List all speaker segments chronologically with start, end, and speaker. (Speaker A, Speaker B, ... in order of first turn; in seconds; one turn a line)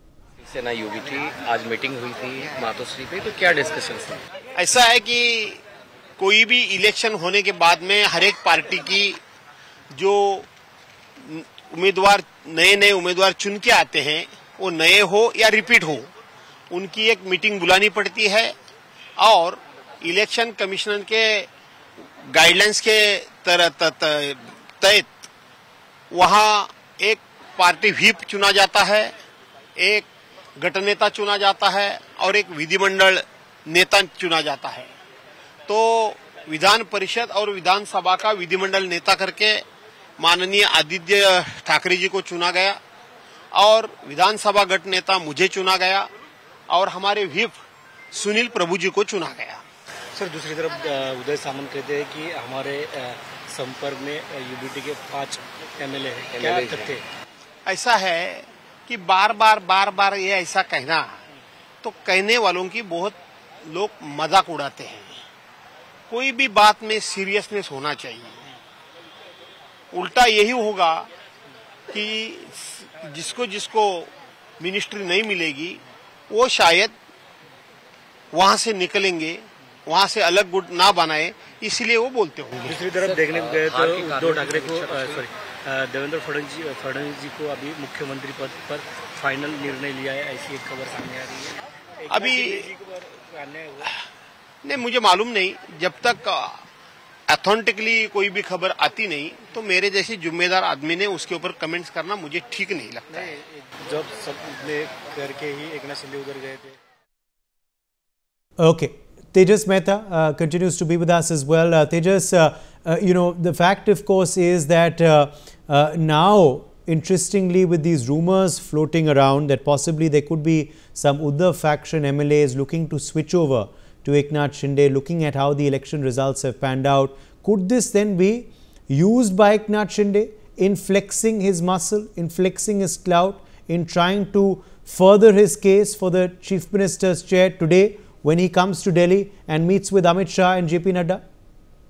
Speaker A: 0.4-4.2
Speaker B: 4.5-5.6
Speaker B: 6.2-9.2
Speaker B: 9.9-10.5
Speaker B: 11.2-16.1
Speaker B: 16.7-18.5
Speaker B: 19.2-21.5
Speaker B: 22.3-25.3
Speaker B: 26.1-29.1
Speaker B: 29.8-34.9
Speaker B: 35.7-39.6
Speaker B: 40.2-42.8
Speaker B: 43.5-46.1
Speaker B: 46.7-47.6
Speaker B: 48.1-49.6
Speaker C: 50.1-57.0
Speaker A: 56.3-57.0
Speaker B: 57.6-61.2
Speaker B: 61.8-65.2
Speaker B: 66.1-68.4
Speaker B: 69.9-71.1
Speaker B: 71.9-76.9
Speaker B: 78.3-82.8
Speaker C: 82.6-93.9
Speaker A: 82.9-85.2
Speaker B: 92.1-92.7
Speaker B: 94.6-96.6
Speaker B: 97.3-103.3
Speaker C: 103.1-106.8
Speaker D: 108.6-141.2